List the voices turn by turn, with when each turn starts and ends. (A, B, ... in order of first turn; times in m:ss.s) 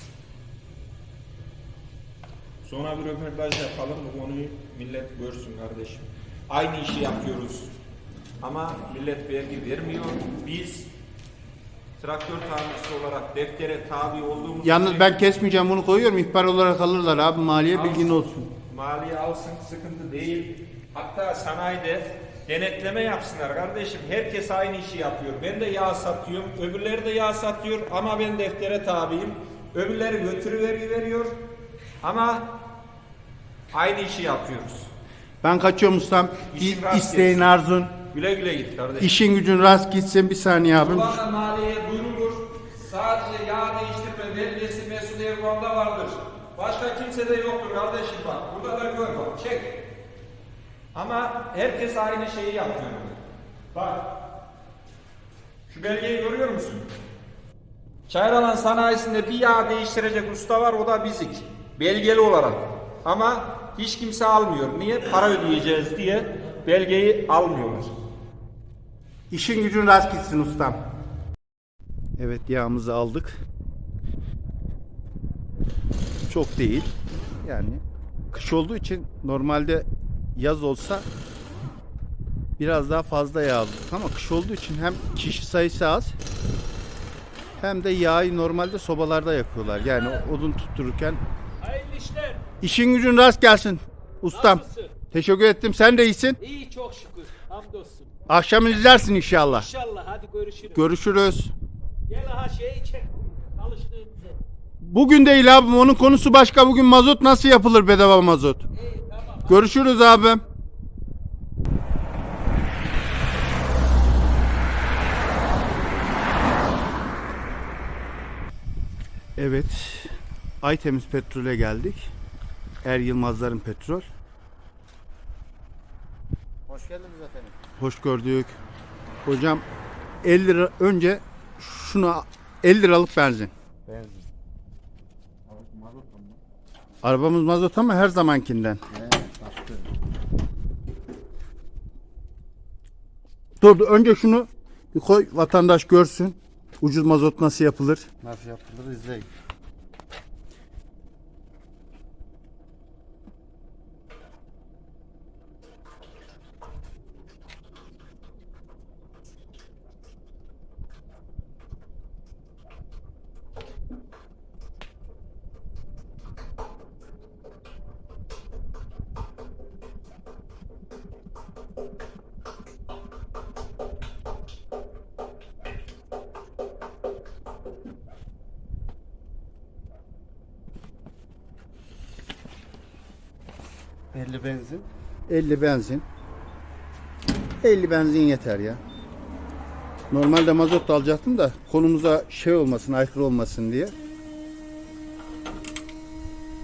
0:02.6-0:07.7 A
0:08.4-0:10.9 A
0:12.0-0:15.2 A
0:14.6-0:18.5 B
0:17.7-0:31.4 A
0:32.0-0:32.5 A
0:33.7-0:34.9 A
0:35.4-0:38.0 B
0:36.5-0:37.5 A
0:38.1-0:39.1 A
0:39.0-0:41.2 B
0:40.8-0:49.9 A
0:50.9-0:53.2 A
0:53.7-0:54.1 A
0:55.7-0:56.9 A
0:58.1-1:08.0 A
1:09.3-1:10.8 B
1:12.2-1:13.4 B
1:16.3-1:21.1 B
1:22.6-1:26.1 B
1:27.6-1:31.2 B
1:31.6-1:32.4 C
1:32.0-1:32.4 A
1:32.6-1:36.4 B
1:34.4-1:34.8 C
1:34.5-1:34.9 A
1:36.4-1:38.1 C
1:38.3-1:39.7 B
1:39.7-1:40.8 C
1:40.7-1:41.5 B
1:42.1-1:44.4 C
1:44.8-1:48.6 B
1:48.9-1:49.5 C
1:49.5-1:50.4 B
1:59.4-2:02.1 B
2:02.8-2:04.0 B
2:06.7-2:07.6 D
2:07.8-2:08.6 B
2:09.2-2:09.6 B
2:10.2-2:13.5 B
2:13.9-2:14.3 D
2:15.5-2:16.4 D
2:17.0-2:18.8 B
2:18.9-2:19.9 D
2:23.6-2:28.2 B
2:28.2-2:29.3 D
3:04.1-3:04.9 D
3:05.3-3:06.0 B
3:07.6-3:08.8 B
3:10.1-3:13.9 B